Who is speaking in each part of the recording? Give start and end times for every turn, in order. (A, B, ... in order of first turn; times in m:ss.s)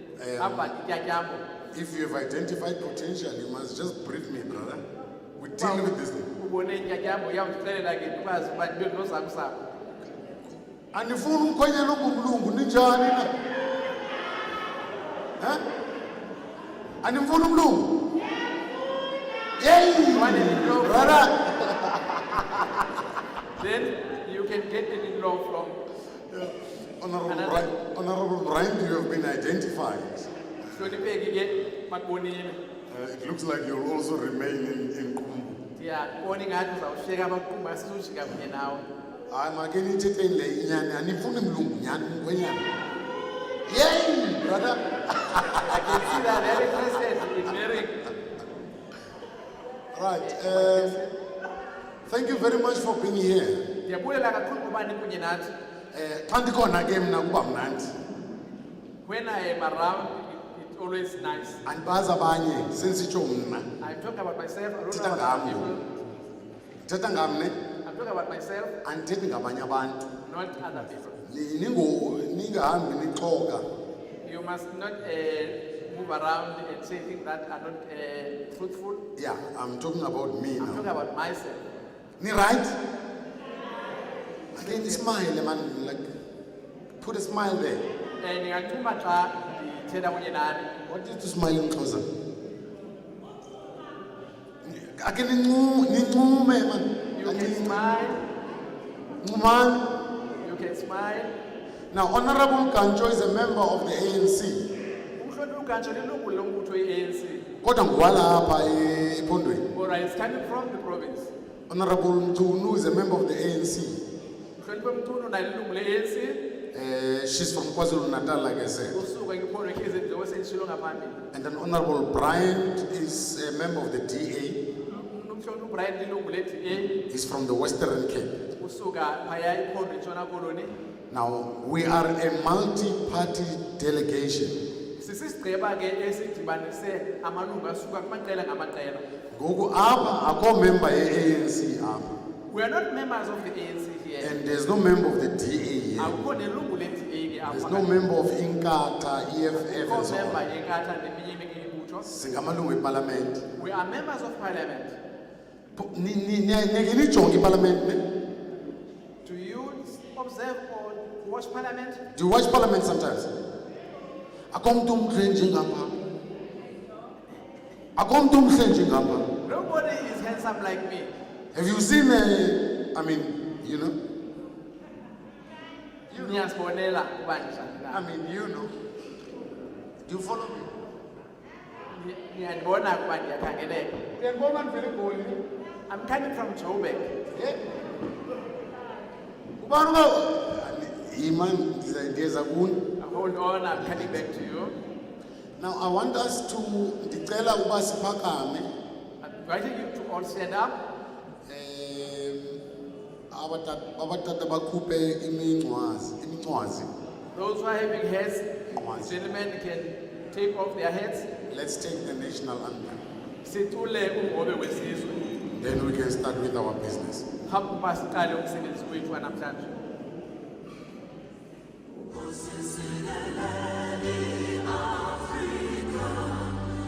0:00.2-0:00.7 A
0:00.4-0:01.4 B
0:01.7-0:04.8 A
0:05.4-0:06.3 A
0:05.6-0:09.6 B
0:10.9-0:13.3 A
0:17.0-0:17.9 A
0:19.6-0:23.0 A
0:20.0-0:21.3 B
0:23.6-0:25.8 B
0:26.3-0:30.3 A
0:27.3-0:27.7 B
0:30.7-0:32.6 B
0:32.9-0:35.6 A
0:35.8-0:38.8 B
0:39.3-0:42.7 A
0:43.7-0:46.2 A
0:45.5-0:48.0 B
0:49.9-0:51.0 A
0:50.2-0:51.2 B
0:52.1-0:53.6 A
0:53.8-0:55.5 B
0:55.9-0:57.9 A
0:59.0-1:01.6 B
1:01.6-1:03.7 A
1:03.8-1:05.8 B
1:04.9-1:05.7 A
1:06.8-1:07.6 A
1:07.8-1:08.8 B
1:08.8-1:10.1 A
1:10.2-1:11.2 B
1:11.2-1:13.6 A
1:14.2-1:19.0 B
1:19.2-1:20.8 A
1:20.6-1:21.6 B
1:22.2-1:22.8 A
1:24.5-1:26.1 A
1:24.6-1:25.1 B
1:27.0-1:27.8 A
1:28.2-1:30.7 B
1:30.9-1:32.1 A
1:34.6-1:37.8 A
1:37.2-1:38.2 B
1:39.2-1:39.8 A
1:40.4-1:41.3 B
1:41.9-1:44.7 A
1:45.2-1:47.5 B
1:47.6-1:49.6 A
1:49.7-1:51.3 B
1:51.7-1:54.0 A
1:54.6-1:56.4 B
1:56.7-1:59.0 A
1:58.9-2:01.2 B
2:01.3-2:04.6 A
2:04.9-2:07.0 B
2:07.1-2:08.3 A
2:08.6-2:10.7 B
2:11.1-2:14.6 A
2:15.0-2:19.1 B
2:19.3-2:22.1 A
2:22.5-2:24.4 B
2:24.2-2:26.2 A
2:26.0-2:28.0 B
2:27.5-2:30.4 A
2:29.6-2:32.1 B
2:32.0-2:33.4 A
2:33.6-2:35.0 B
2:35.8-2:38.0 A
2:39.2-2:42.0 B
2:42.1-2:43.3 A
2:44.5-2:46.0 A
2:48.0-2:49.3 A
2:49.4-2:51.1 B
2:51.5-2:54.0 A
2:56.1-2:56.5 A
2:56.1-2:58.0 B
2:57.9-2:58.7 A
3:00.0-3:00.7 A
3:01.9-3:04.1 B
3:04.2-3:05.4 A
3:05.9-3:07.1 B
3:07.3-3:07.6 A
3:09.6-3:12.8 A
3:13.0-3:14.8 B
3:13.8-3:14.1 A
3:15.6-3:18.7 A
3:19.2-3:20.8 B
3:21.5-3:22.6 A
3:23.3-3:26.9 A
3:27.3-3:28.5 B
3:28.7-3:29.2 A
3:29.0-3:31.3 B
3:31.5-3:33.0 A
3:33.4-3:35.3 B
3:35.6-3:37.3 A
3:37.5-3:39.7 B
3:42.3-3:46.5 B